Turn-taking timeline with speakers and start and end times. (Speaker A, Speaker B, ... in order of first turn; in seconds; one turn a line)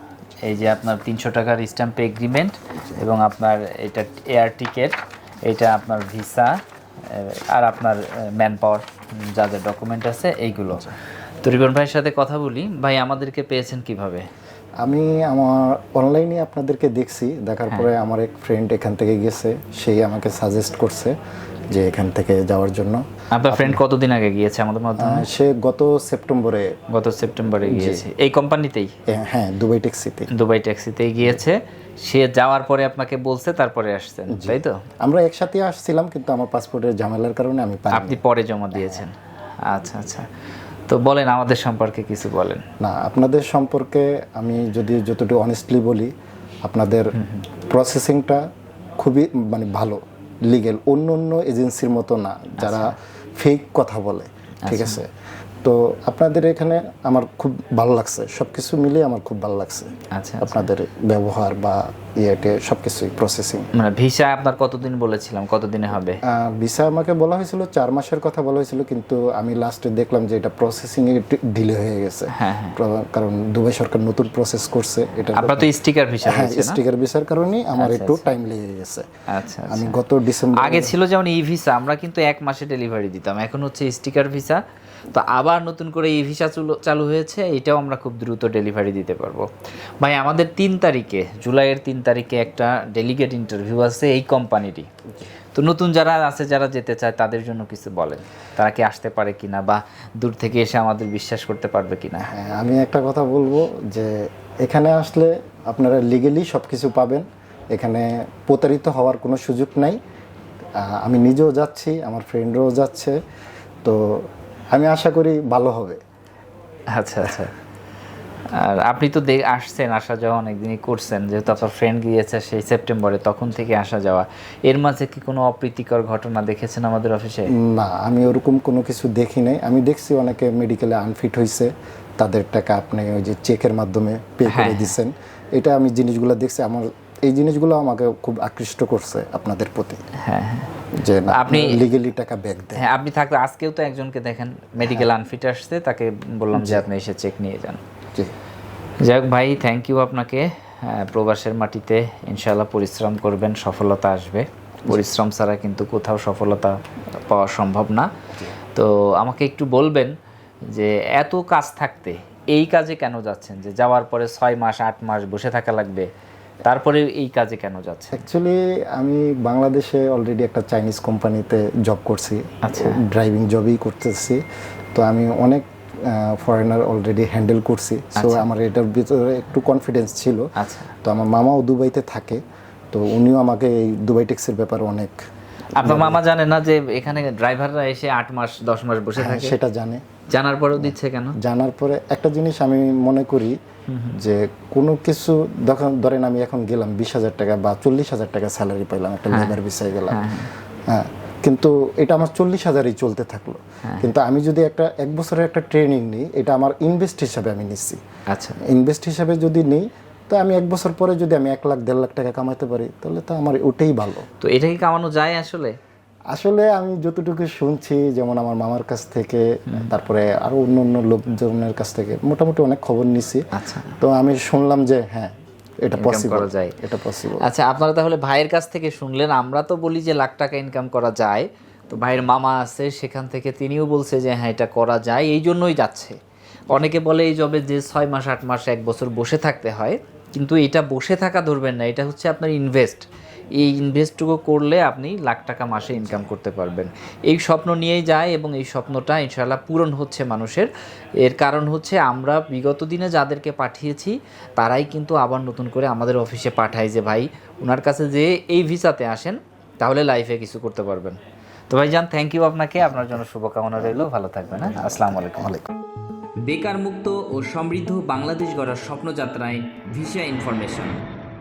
Speaker A: 0.4-14.3
Speaker B: 14.8-21.1
Speaker B: 21.7-23.8
Speaker A: 23.3-25.2
Speaker B: 25.0-26.7
Speaker A: 26.9-28.9
Speaker B: 27.7-28.1
Speaker B: 29.1-30.3
Speaker A: 30.3-34.8
Speaker B: 34.3-38.2
Speaker A: 37.9-40.3
Speaker B: 38.7-39.0
Speaker A: 40.9-42.6
Speaker B: 42.8-46.1
Speaker B: 46.6-47.1
Speaker A: 47.1-47.5
Speaker B: 47.7-48.4
Speaker B: 49.0-55.1
Speaker A: 52.6-53.0
Speaker A: 54.7-55.0
Speaker B: 55.6-63.7
Speaker A: 60.1-60.7
Speaker A: 63.7-66.2
Speaker B: 66.2-79.1
Speaker A: 72.3-72.8
Speaker A: 75.3-76.8
Speaker A: 77.8-78.2
Speaker A: 79.3-80.0
Speaker B: 79.7-81.0
Speaker A: 80.5-89.5
Speaker A: 90.0-94.9
Speaker A: 95.5-102.3
Speaker B: 102.3-110.0
Speaker B: 110.8-113.2
Speaker B: 113.8-116.0
Speaker A: 116.9-117.5
Speaker A: 118.5-127.5
Speaker B: 127.6-140.0
Speaker A: 134.5-134.9
Speaker A: 140.2-140.7
Speaker B: 141.0-142.9
Speaker A: 141.3-141.8
Speaker A: 142.8-147.8
Speaker B: 146.5-146.9
Speaker A: 149.0-158.1
Speaker A: 158.7-160.1
Speaker A: 160.7-166.1
Speaker A: 166.7-168.2
Speaker B: 168.1-174.4
Speaker A: 172.6-173.0
Speaker B: 174.9-180.5
Speaker A: 178.2-178.4
Speaker A: 180.6-180.9
Speaker B: 181.0-182.4
Speaker B: 182.9-185.2
Speaker A: 185.8-189.6
Speaker B: 185.8-186.2
Speaker B: 189.2-190.0
Speaker A: 190.3-191.4
Speaker B: 190.8-193.6
Speaker A: 193.9-194.2
Speaker B: 194.1-208.0
Speaker A: 199.3-199.6
Speaker A: 200.1-200.5
Speaker A: 203.8-204.1
Speaker A: 208.3-208.6
Speaker B: 208.7-214.3
Speaker A: 214.4-215.8
Speaker B: 216.3-223.4
Speaker A: 223.5-224.0
Speaker B: 224.0-227.5
Speaker A: 225.9-226.8
Speaker A: 227.4-236.2
Speaker A: 236.7-243.0
Speaker A: 243.6-250.7
Speaker A: 251.2-261.2
Speaker A: 261.7-265.5
Speaker B: 264.7-265.7
Speaker A: 266.4-271.0